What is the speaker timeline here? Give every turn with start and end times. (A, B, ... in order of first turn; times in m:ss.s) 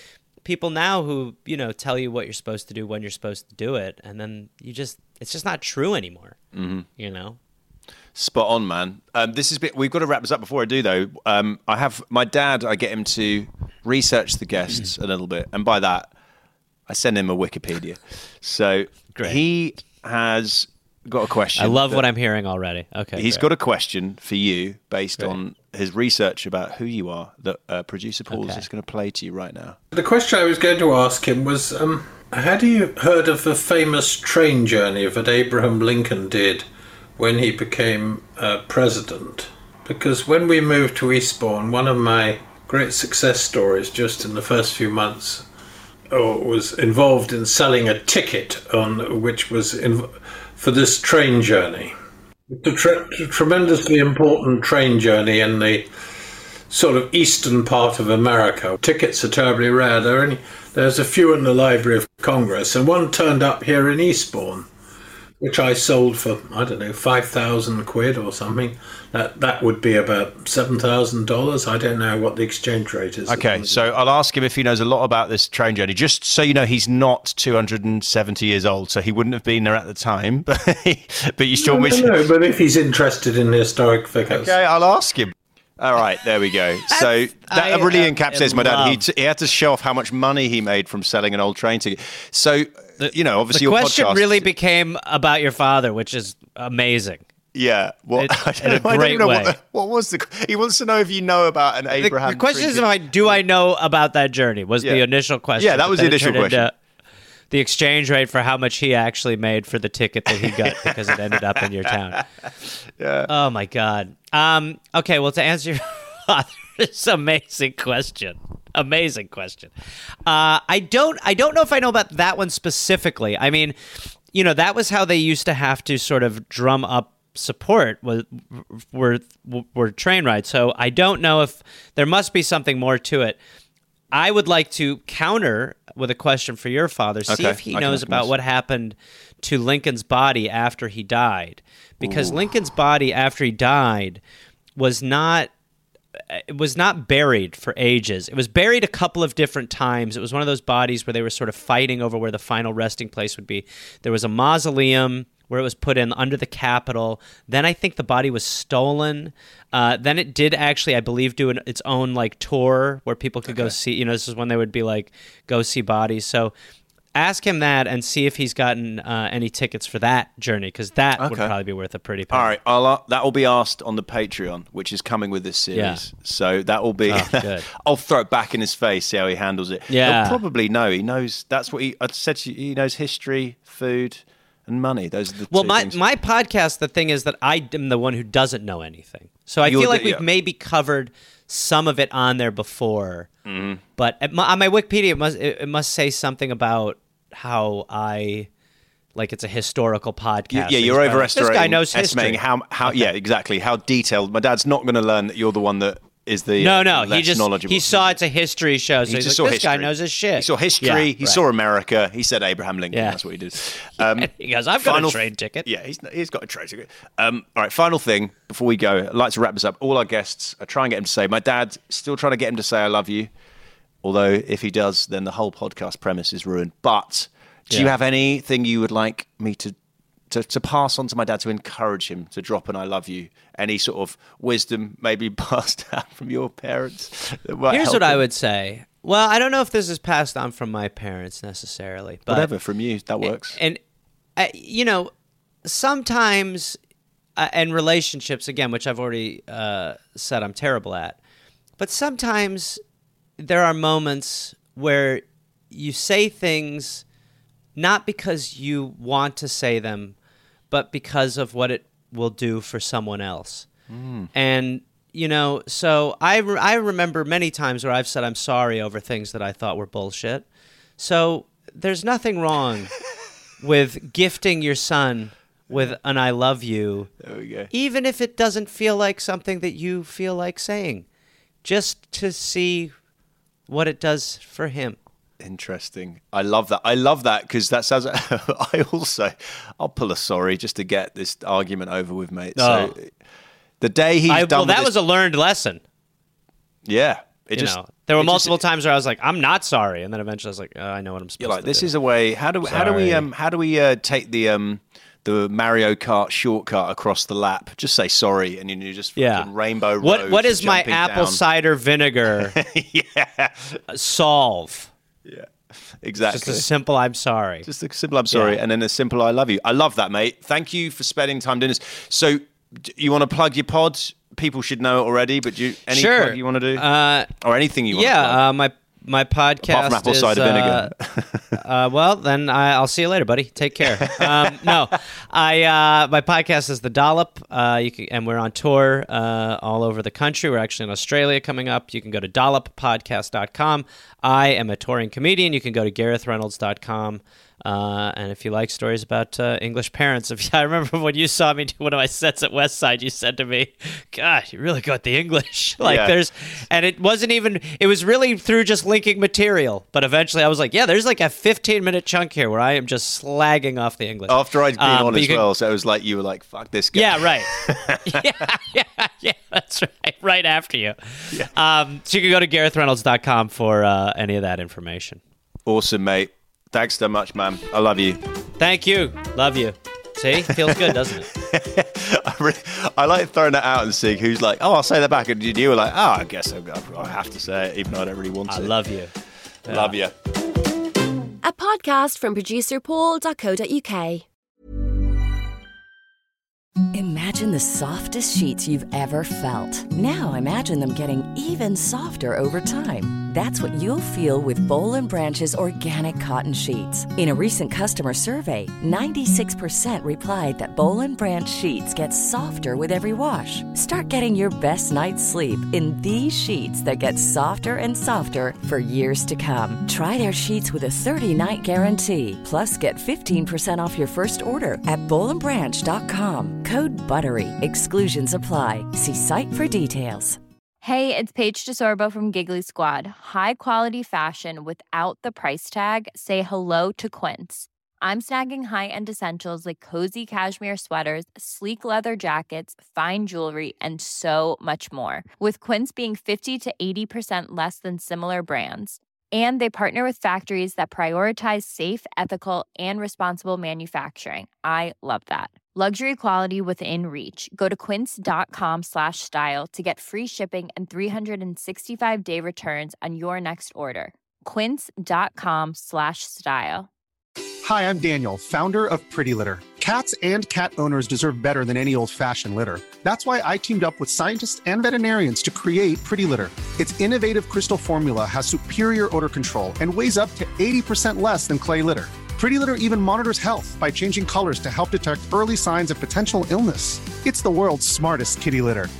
0:00.4-0:06.4 A
0:06.5-0:06.9 B
0:07.0-0:07.4 A
0:08.2-0:16.1 B
0:16.9-0:22.0 B
0:19.1-0:19.4 A
0:21.6-0:23.4 A
0:23.2-0:29.8 B
0:28.3-0:28.6 A
0:29.9-0:36.7 C
0:37.2-0:45.5 C
0:46.1-0:51.9 C
0:52.5-0:55.9 C
0:56.7-1:04.7 C
1:05.4-1:13.9 C
1:13.3-1:22.3 B
1:21.6-1:24.5 C
1:24.2-1:34.5 B
1:26.9-1:29.0 A
1:33.0-1:37.2 A
1:37.5-1:43.4 B
1:38.2-1:39.6 A
1:42.0-1:46.7 A
1:44.8-1:46.7 B
1:47.5-1:52.2 A
1:50.4-1:53.3 B
1:53.3-1:59.7 A
2:00.3-2:13.4 A
2:14.1-2:24.2 A
2:17.3-2:18.3 B
2:22.0-2:22.4 B
2:24.8-2:25.5 A
2:26.3-2:46.5 A
2:43.5-2:43.8 B
2:47.2-2:52.6 A
2:51.2-2:51.6 B
2:52.3-3:06.0 B
2:55.7-2:56.0 A
2:57.1-2:57.7 A
2:59.9-3:00.4 A
3:05.5-3:13.3 A
3:09.6-3:10.2 B
3:13.4-3:13.8 B
3:14.0-3:18.5 A
3:19.2-3:23.1 A
3:20.5-3:28.2 B
3:26.6-3:31.4 A
3:29.1-3:43.3 B
3:32.9-3:33.2 A
3:34.0-3:35.7 A
3:44.0-3:49.8 B
3:50.3-3:58.2 B
3:57.7-4:02.5 A
4:02.3-4:03.6 B
4:03.2-4:03.8 A
4:04.4-4:05.1 A
4:05.6-4:06.8 A
4:07.4-4:11.2 A
4:11.8-4:12.8 A
4:13.4-4:17.0 A
4:17.8-4:20.2 A
4:20.7-4:23.7 A
4:23.9-4:24.3 B
4:24.3-4:30.4 A
4:31.0-4:33.0 A
4:33.6-4:37.1 A
4:35.7-4:36.0 B
4:37.2-4:37.7 B
4:37.7-4:41.1 A
4:41.6-4:42.9 A
4:43.7-4:45.0 A
4:45.4-4:53.2 B
4:52.6-4:53.0 A
4:53.8-4:54.9 B
4:54.3-4:55.8 A
4:56.8-4:58.6 B
4:57.6-5:01.9 A
5:01.4-5:11.4 B
5:02.6-5:03.3 A
5:09.2-5:09.5 A
5:10.0-5:12.6 A
5:12.5-5:13.8 B
5:13.9-5:14.9 A
5:15.2-5:16.7 B
5:16.3-5:17.7 A
5:17.6-5:28.4 B
5:18.3-5:18.6 A
5:25.9-5:27.3 A
5:27.9-5:30.9 A
5:29.6-5:31.6 B
5:31.6-6:05.5 A
5:34.0-5:34.8 B
5:55.8-5:56.2 B
6:04.3-6:08.5 B
6:06.9-6:15.2 A
6:15.7-6:18.2 B
6:18.6-6:21.3 A
6:20.4-6:28.8 B
6:28.5-6:29.1 A
6:29.7-6:30.1 B
6:29.7-6:30.0 A
6:31.4-6:34.2 D
6:36.9-7:10.4 E
7:10.8-7:46.9 F
7:47.6-8:08.9 G